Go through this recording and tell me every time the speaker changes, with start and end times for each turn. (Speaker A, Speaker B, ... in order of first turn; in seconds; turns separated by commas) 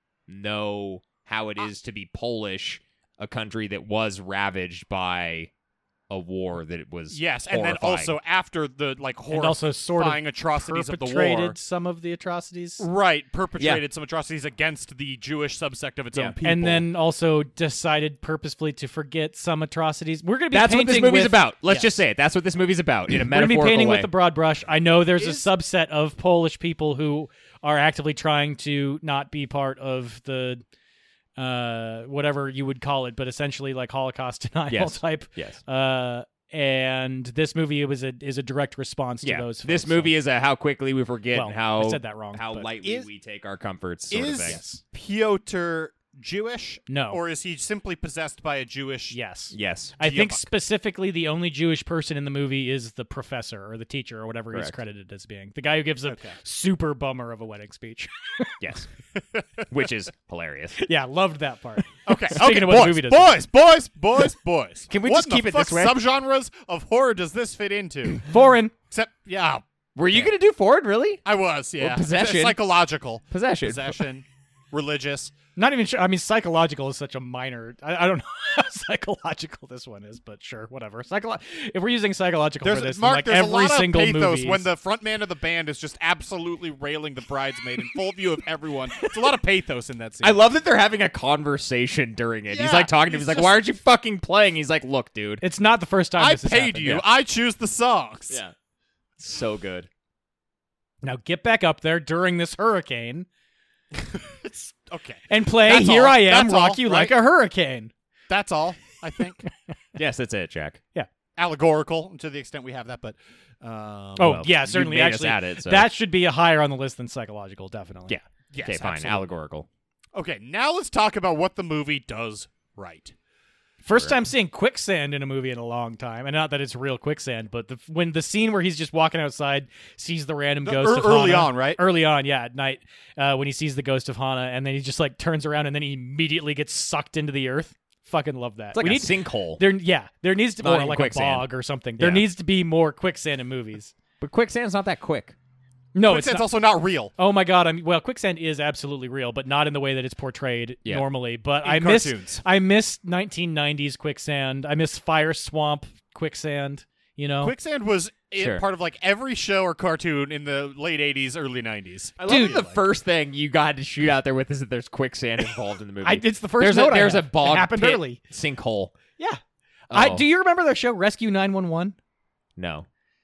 Speaker A: 0.3-5.5, Speaker A: 6.1-8.2, Speaker B: 7.1-11.6, Speaker C: 9.3-12.8, Speaker B: 12.8-16.8, Speaker C: 16.4-21.9, Speaker A: 20.5-24.1, Speaker C: 23.1-30.6, Speaker B: 25.2-25.5, Speaker C: 31.4-40.1, Speaker A: 34.7-35.6, Speaker A: 39.2-44.6, Speaker C: 41.3-42.7, Speaker B: 42.8-43.1, Speaker B: 44.1-49.2, Speaker C: 44.4-44.8, Speaker C: 46.9-47.2, Speaker C: 49.1-58.5, Speaker A: 49.5-50.0, Speaker B: 50.0-50.5, Speaker A: 54.5-54.8, Speaker B: 56.1-56.3, Speaker A: 58.6-58.9, Speaker A: 59.7-60.8, Speaker C: 60.8-63.4, Speaker B: 62.0-68.2, Speaker A: 64.9-66.0, Speaker C: 68.2-68.7, Speaker B: 68.9-70.3, Speaker A: 70.0-71.2, Speaker B: 71.2-75.3, Speaker A: 71.8-72.6, Speaker A: 73.3-74.0, Speaker C: 75.6-84.7, Speaker B: 82.6-90.4, Speaker A: 90.2-95.4, Speaker B: 92.5-93.6, Speaker C: 95.4-97.0, Speaker B: 96.2-98.4, Speaker A: 98.3-98.5, Speaker A: 99.2-99.9, Speaker C: 101.0-103.3, Speaker B: 103.9-107.1, Speaker C: 105.3-107.9, Speaker B: 108.3-109.4, Speaker A: 110.0-110.8, Speaker B: 111.3-114.4, Speaker C: 114.2-118.2, Speaker A: 114.2-115.9, Speaker A: 118.1-119.7, Speaker B: 118.5-119.2, Speaker B: 120.1-123.1, Speaker C: 123.8-143.9, Speaker B: 130.6-131.8, Speaker A: 138.7-139.6, Speaker A: 140.6-141.5, Speaker A: 142.0-142.2, Speaker A: 144.2-145.3, Speaker C: 145.9-146.5, Speaker B: 146.0-147.1, Speaker C: 147.2-157.5, Speaker B: 151.6-152.4, Speaker B: 157.4-162.7, Speaker A: 158.4-158.6, Speaker C: 162.2-162.7, Speaker A: 162.2-168.9, Speaker C: 166.0-168.2, Speaker C: 169.2-171.9, Speaker A: 169.9-170.2, Speaker A: 172.6-172.9